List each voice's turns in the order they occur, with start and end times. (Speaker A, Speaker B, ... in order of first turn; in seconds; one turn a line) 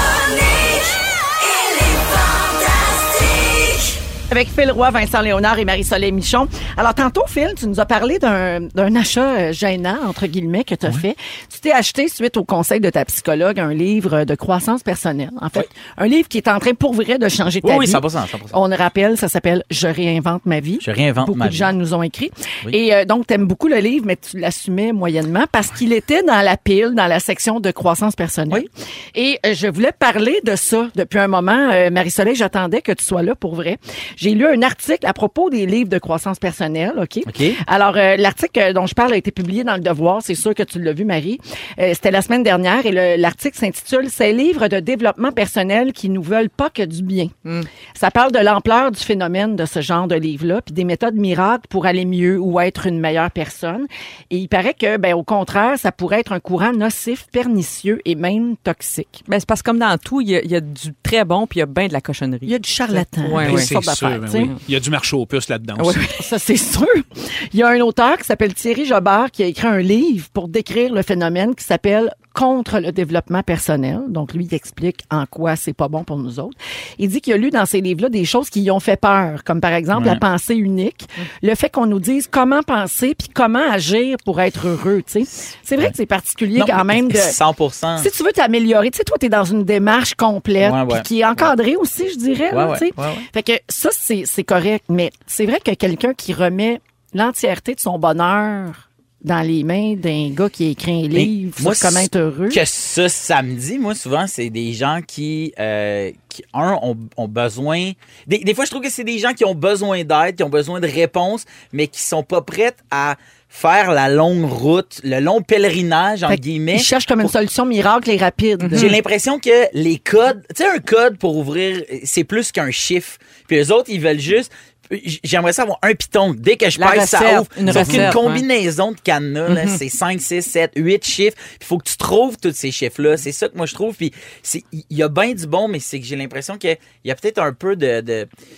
Speaker A: 4.3-47.3
Speaker B: 17.6-18.5
Speaker B: 20.8-21.7
Speaker B: 37.3-37.6
Speaker A: 47.9-59.2
Speaker C: 59.3-63.7
Speaker A: 62.5-64.5
Speaker D: 63.3-66.0
Speaker A: 66.1-87.4
Speaker B: 79.9-80.2
Speaker B: 86.5-88.1
Speaker A: 88.0-102.6
Speaker B: 90.6-91.5
Speaker B: 92.5-93.2
Speaker B: 101.1-116.9
Speaker A: 116.3-118.9
Speaker C: 118.6-119.0
Speaker B: 118.7-138.3
Speaker C: 126.8-128.4
Speaker D: 127.7-128.2
Speaker C: 129.4-129.8